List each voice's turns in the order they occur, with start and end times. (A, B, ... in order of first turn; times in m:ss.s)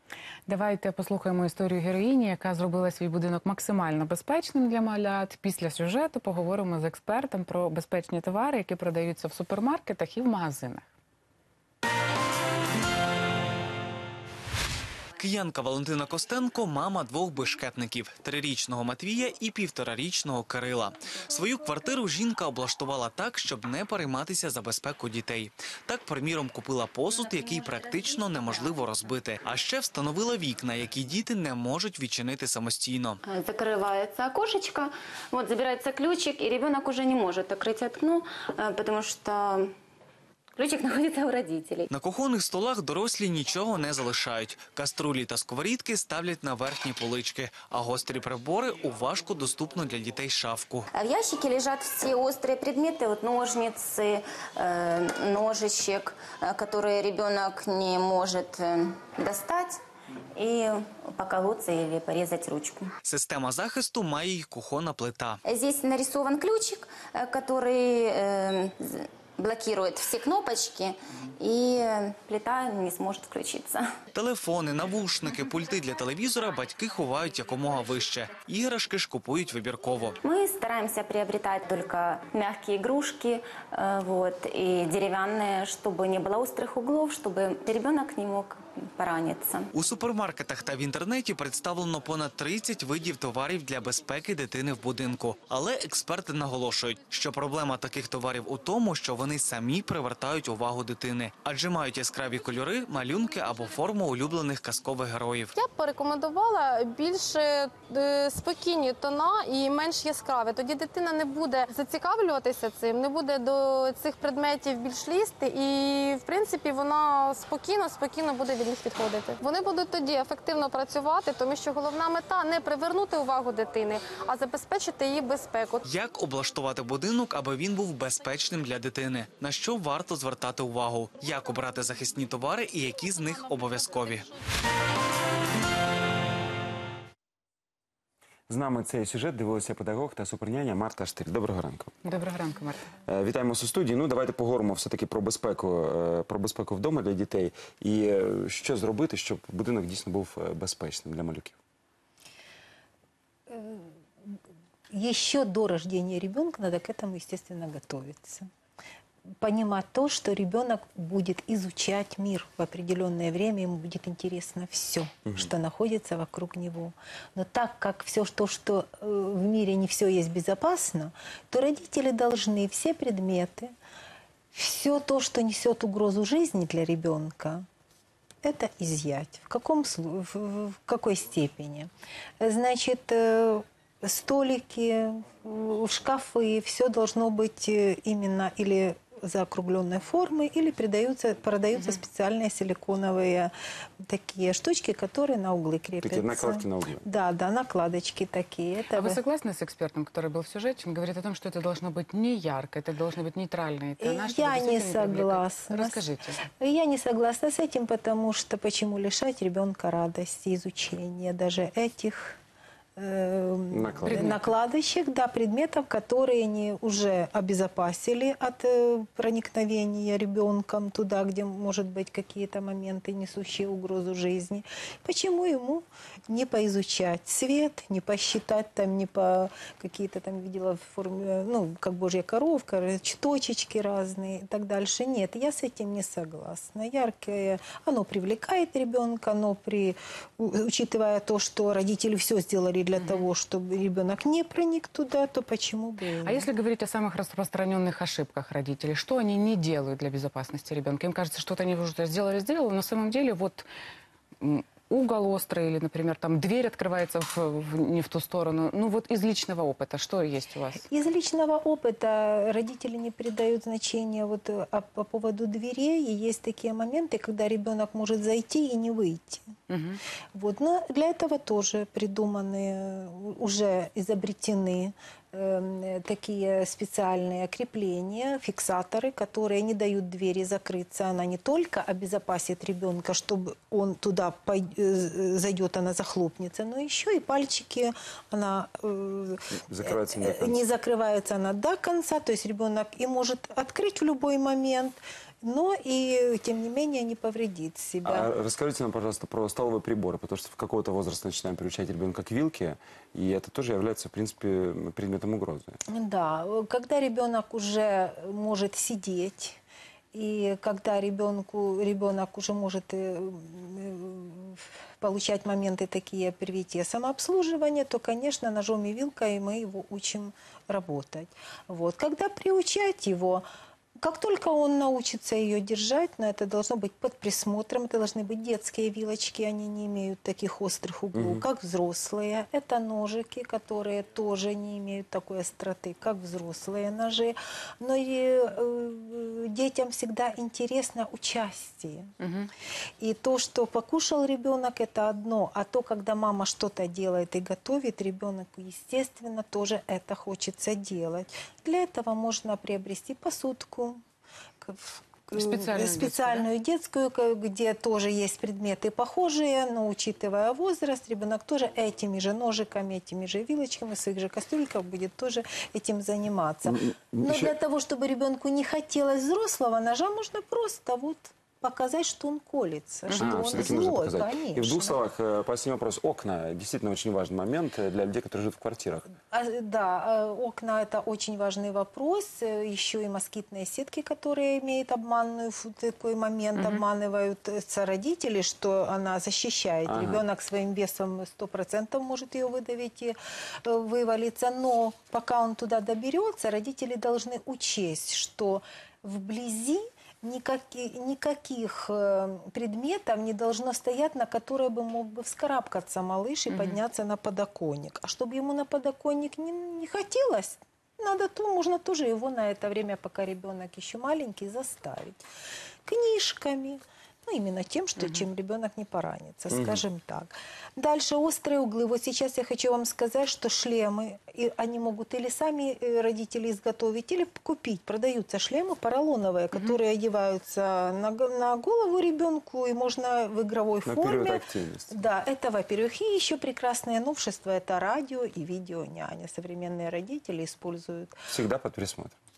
0:00.5-0:10.9 A
0:15.2-0:33.2 B
0:33.2-0:39.7 C
0:40.6-0:41.9 C
0:41.9-0:50.9 B
0:50.9-0:59.8 C
1:00.4-1:02.9 C
1:03.0-1:05.4 B
1:05.5-1:13.9 C
1:14.1-1:20.2 B
1:20.2-1:29.7 C
1:29.7-1:45.5 B
1:45.6-2:05.8 D
2:05.8-2:14.3 B
2:18.5-2:21.9 E
2:22.0-2:22.9 A
2:23.0-2:31.6 E
2:33.5-2:33.9 F
2:34.9-2:38.5 F
2:39.4-2:53.7 F
2:54.5-2:57.6 F
2:58.4-3:01.9 F
3:02.4-3:13.5 F
3:11.8-3:12.0 A
3:14.0-3:19.2 F
3:16.0-3:17.0 E
3:18.9-3:26.4 A
3:24.0-3:32.4 F
3:33.0-4:06.5 F
3:33.7-3:34.2 E
3:34.0-3:34.4 A
4:03.0-4:03.3 A
4:06.2-4:13.7 A
4:14.4-4:20.9 A
4:20.8-4:29.4 F
4:29.7-4:30.0 A
4:30.4-4:58.3 F
4:49.7-4:50.6 E
4:58.0-5:05.8 E
5:05.9-5:09.6 F
5:10.1-5:23.4 F
5:24.0-5:42.1 F
5:31.2-5:31.4 E
5:42.2-5:42.5 A
5:43.0-5:54.0 F
5:54.6-6:15.0 F
5:55.3-5:56.5 A
6:06.7-6:07.5 E
6:13.1-6:13.8 A
6:13.2-6:19.1 E
6:19.3-6:55.2 F
6:26.6-6:26.8 A
6:29.9-6:30.2 E
6:46.5-6:46.8 A
6:55.9-7:21.2 F
7:09.5-7:09.8 A
7:13.8-7:14.9 E
7:21.3-7:22.2 E